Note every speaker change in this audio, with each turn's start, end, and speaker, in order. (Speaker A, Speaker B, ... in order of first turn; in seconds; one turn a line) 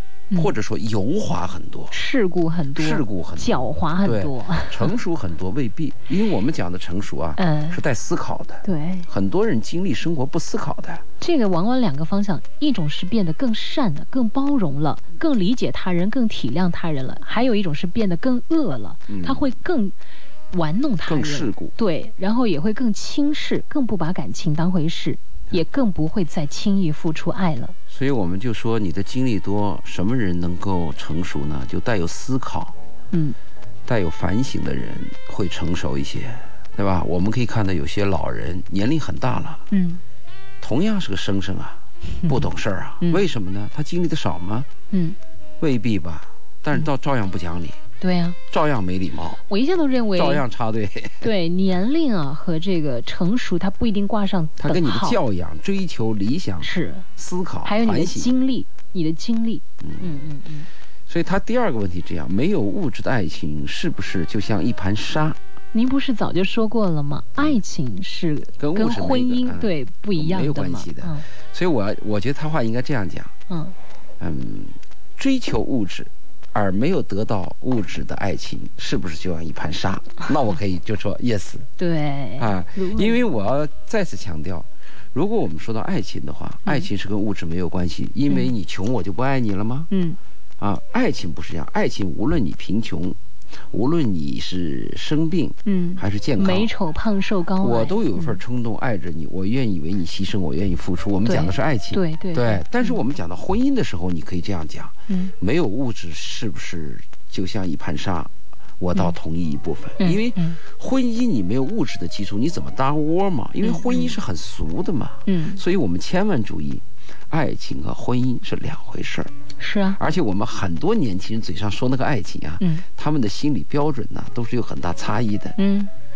Speaker A: 0.3-1.9
Speaker B: 1.9-4.9
Speaker A: 2.8-3.5
Speaker A: 4.0-11.0
Speaker B: 7.4-7.8
Speaker B: 8.6-9.1
Speaker B: 11.2-19.9
Speaker A: 19.1-19.5
Speaker B: 20.5-27.8
Speaker A: 21.1-21.7
Speaker A: 27.9-32.8
Speaker B: 33.1-33.4
Speaker A: 33.9-39.6
Speaker B: 39.7-40.0
Speaker A: 40.6-44.7
Speaker B: 44.9-45.2
Speaker A: 45.6-47.8
Speaker B: 48.0-48.4
Speaker A: 48.5-49.4
Speaker B: 49.5-50.4
Speaker A: 50.1-51.3
Speaker B: 51.2-55.2
Speaker A: 54.6-58.3
Speaker B: 56.6-57.1
Speaker B: 57.6-60.7
Speaker A: 59.8-60.2
Speaker A: 61.1-65.4
Speaker B: 65.7-71.3
Speaker A: 68.6-73.3
Speaker B: 73.5-73.8
Speaker A: 74.2-81.7
Speaker B: 81.8-83.2
Speaker A: 82.4-89.9
Speaker B: 89.9-90.2
Speaker A: 90.6-93.2
Speaker A: 93.7-96.7
Speaker B: 95.7-98.4
Speaker A: 97.6-119.3
Speaker B: 101.3-103.0
Speaker B: 105.1-105.3
Speaker B: 110.0-110.6
Speaker B: 113.6-114.2
Speaker B: 115.3-115.6
Speaker B: 119.6-120.0
Speaker A: 120.0-125.6
Speaker B: 122.6-122.8
Speaker B: 125.6-125.9